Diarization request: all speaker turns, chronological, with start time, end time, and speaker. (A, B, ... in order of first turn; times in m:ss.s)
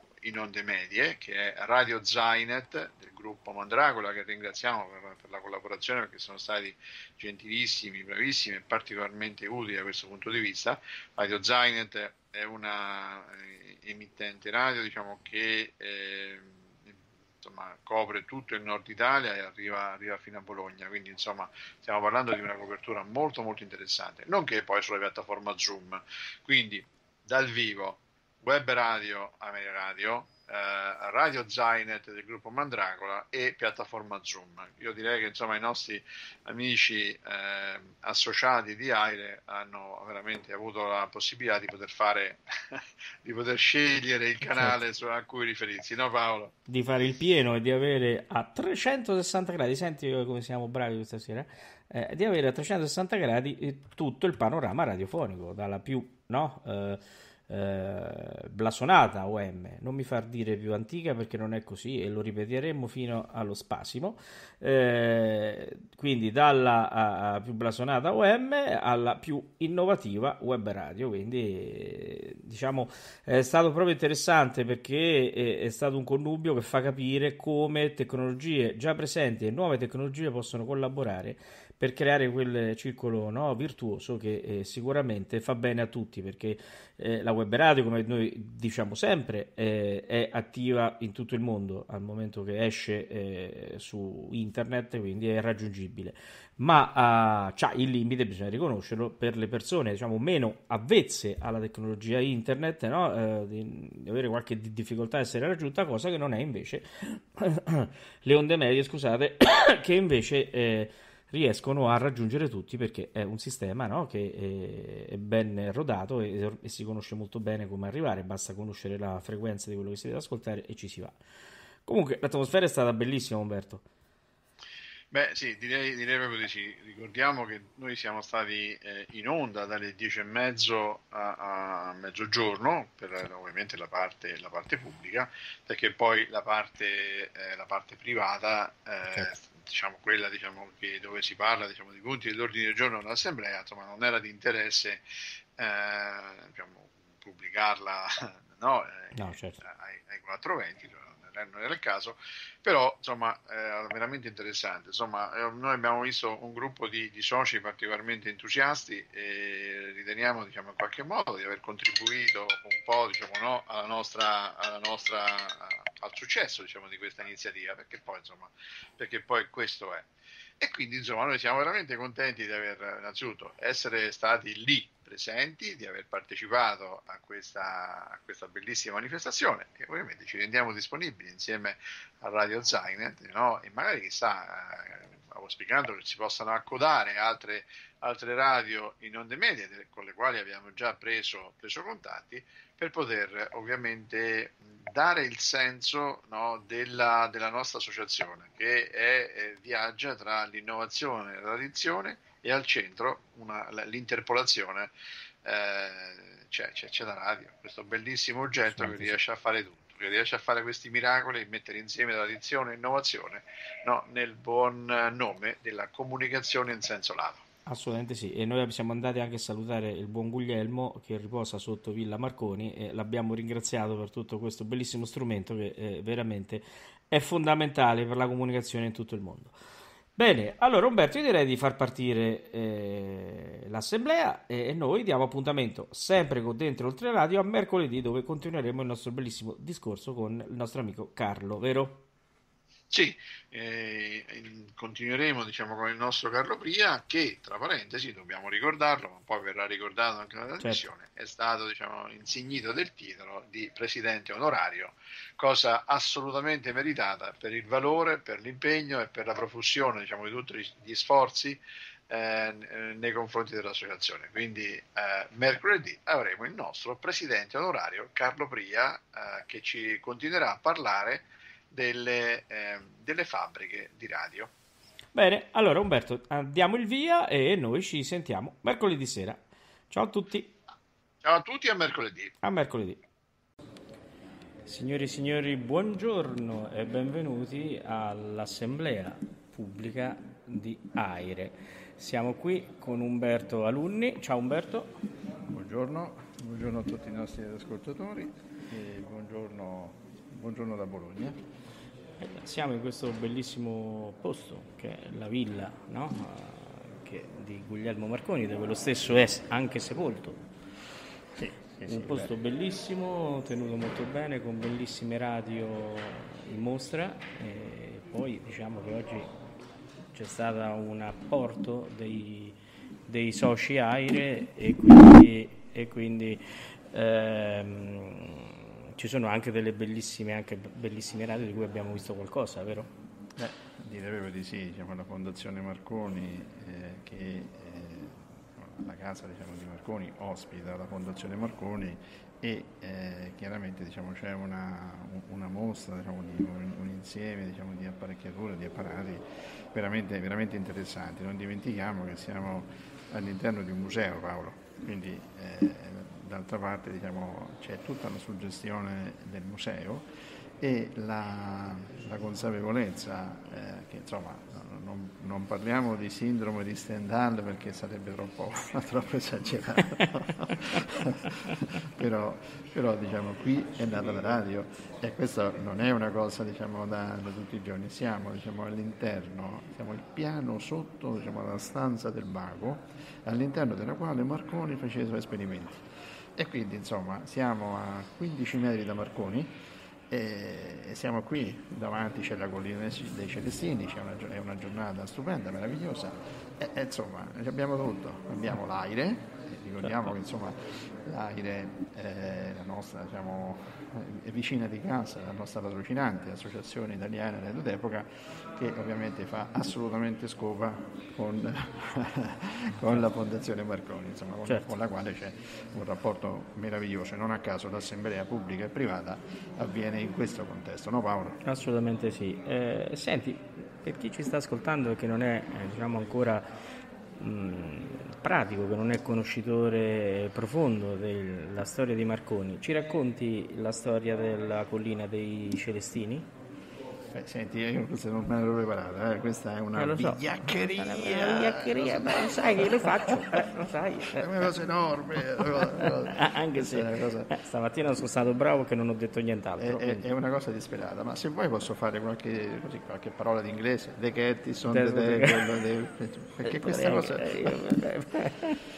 0:00.2-0:46.5 A
0:44.5-0:44.8 B
0:46.7-2:01.2 B
2:01.9-2:03.8 B
2:05.1-2:25.0 A
2:25.6-2:50.1 A
2:29.2-2:29.6 B
2:50.6-3:24.9 A
3:25.4-3:37.4 A
3:28.7-3:29.1 B
3:37.7-3:49.5 B
3:50.2-4:02.0 B
4:02.9-4:34.5 A
4:10.6-4:10.9 B
4:35.2-4:40.5 B
4:41.2-4:42.3 A
4:42.4-4:43.0 B
4:44.6-4:54.9 B
4:55.5-5:01.4 C
5:02.2-5:10.4 B
5:11.4-5:12.3 C
5:11.8-5:19.3 B
5:20.1-5:22.6 B
5:23.1-5:32.9 B
5:33.4-6:00.1 C
6:00.6-6:29.5 C
6:30.1-7:01.4 C
7:01.4-7:06.5 B
7:07.2-7:16.3 B
7:17.1-7:27.3 C
7:19.8-7:20.2 B
7:20.8-7:24.2 B
7:25.6-7:30.1 B
7:29.6-7:37.6 C
7:34.7-7:35.5 B
7:36.4-7:38.6 B